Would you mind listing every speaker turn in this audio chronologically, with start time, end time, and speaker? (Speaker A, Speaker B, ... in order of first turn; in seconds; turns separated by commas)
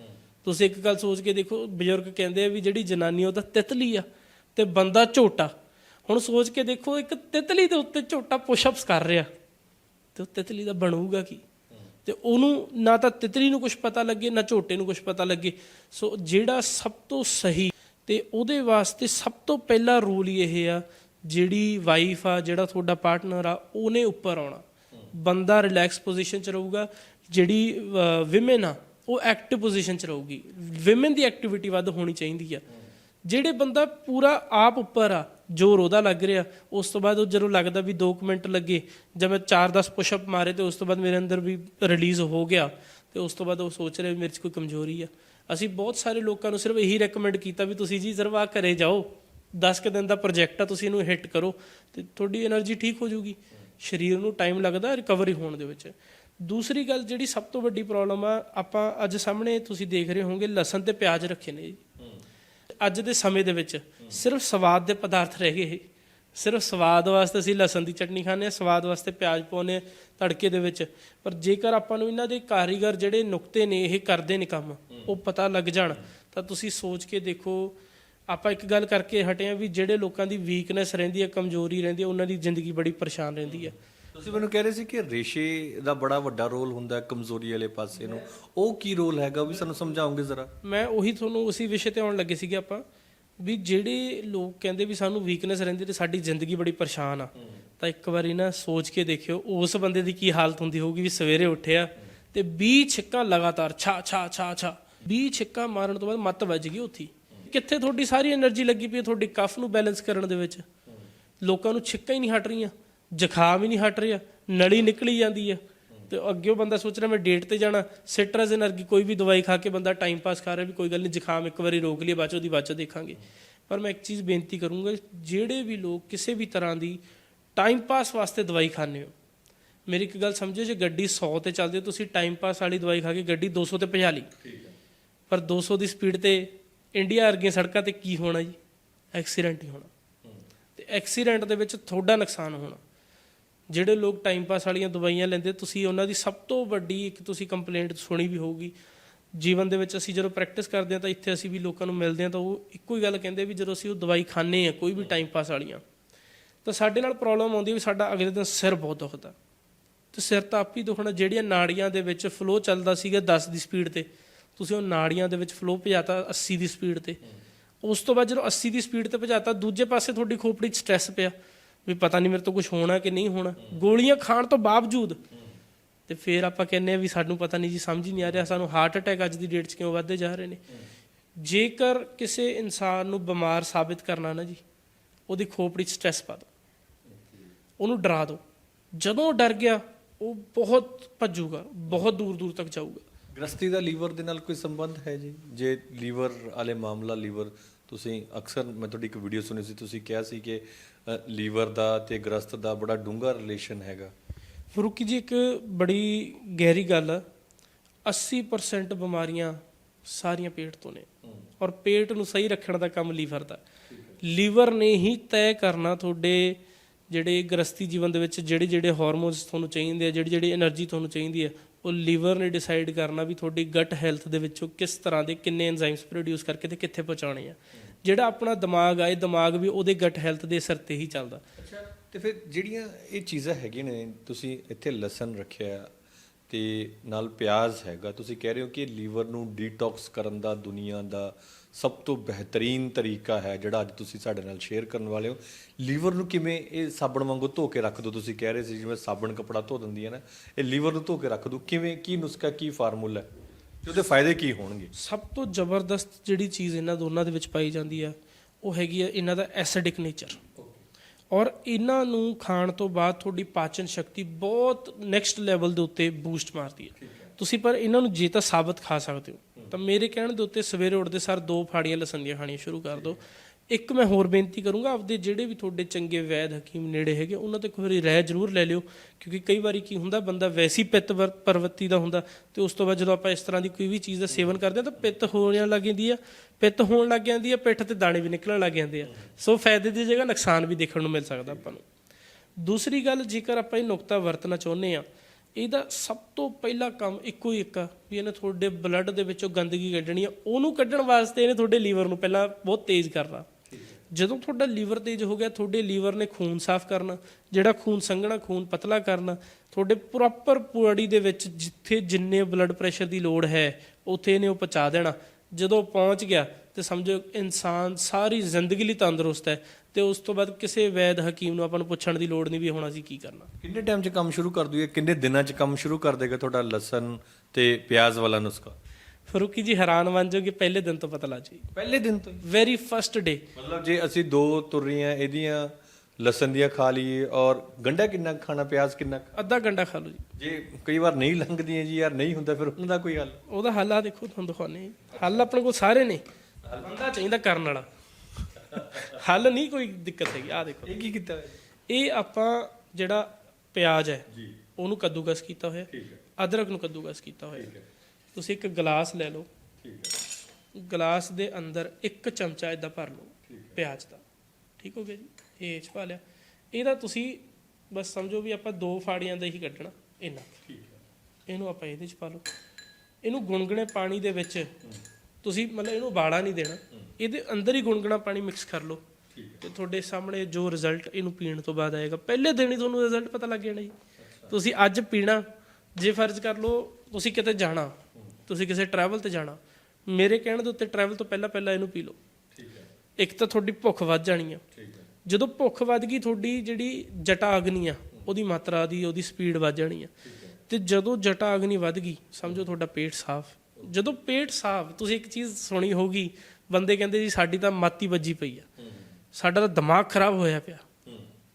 Speaker A: 0.4-5.5, Speaker A: 6.1-9.3, Speaker A: 10.2-11.4, Speaker A: 12.1-32.6, Speaker A: 33.2-61.8, Speaker A: 62.8-77.8, Speaker A: 78.3-83.7, Speaker B: 83.5-90.5, Speaker A: 90.6-92.8, Speaker A: 93.4-110.7, Speaker A: 111.4-127.0, Speaker A: 127.6-129.1, Speaker A: 129.9-134.3, Speaker B: 134.4-134.7, Speaker A: 135.3-138.6, Speaker A: 139.1-139.9, Speaker A: 140.8-142.8, Speaker A: 143.7-148.8, Speaker A: 149.3-155.8, Speaker A: 156.7-159.3, Speaker A: 160.1-167.2, Speaker A: 167.8-171.3, Speaker A: 171.9-175.2, Speaker A: 176.1-180.6, Speaker A: 181.4-184.6, Speaker A: 185.3-186.5, Speaker A: 187.8-188.4, Speaker A: 188.9-193.0, Speaker B: 193.3-204.1, Speaker A: 204.7-207.2, Speaker A: 208.1-211.1, Speaker A: 211.6-213.6, Speaker A: 214.2-231.4, Speaker B: 231.6-235.9, Speaker B: 236.5-253.3, Speaker B: 253.8-254.9, Speaker A: 254.9-260.4, Speaker A: 261.3-291.8, Speaker B: 267.0-267.3, Speaker A: 292.6-303.5, Speaker B: 303.7-304.0, Speaker A: 304.1-323.5, Speaker B: 323.6-328.8, Speaker A: 329.3-331.7, Speaker B: 331.8-332.4, Speaker A: 332.4-333.4, Speaker B: 333.6-339.4, Speaker A: 339.4-340.2, Speaker B: 340.4-343.4, Speaker A: 343.5-347.9, Speaker A: 348.7-351.0, Speaker B: 348.7-349.1, Speaker B: 350.9-351.6, Speaker A: 351.9-354.3, Speaker B: 354.3-354.6, Speaker A: 354.8-357.8, Speaker B: 355.9-356.2, Speaker B: 357.6-357.9, Speaker A: 358.3-359.5, Speaker B: 359.8-360.2, Speaker A: 360.7-364.2, Speaker B: 363.5-363.8, Speaker A: 364.8-370.6, Speaker B: 370.7-371.0, Speaker A: 371.5-372.5, Speaker A: 373.2-374.7, Speaker A: 375.4-379.0, Speaker B: 379.3-379.6, Speaker A: 379.6-383.9, Speaker B: 384.2-384.5, Speaker A: 384.5-392.2, Speaker B: 392.6-392.9, Speaker A: 393.2-394.6, Speaker B: 394.7-395.1, Speaker A: 395.2-400.1, Speaker B: 400.2-400.6, Speaker A: 400.7-408.7, Speaker A: 409.3-410.9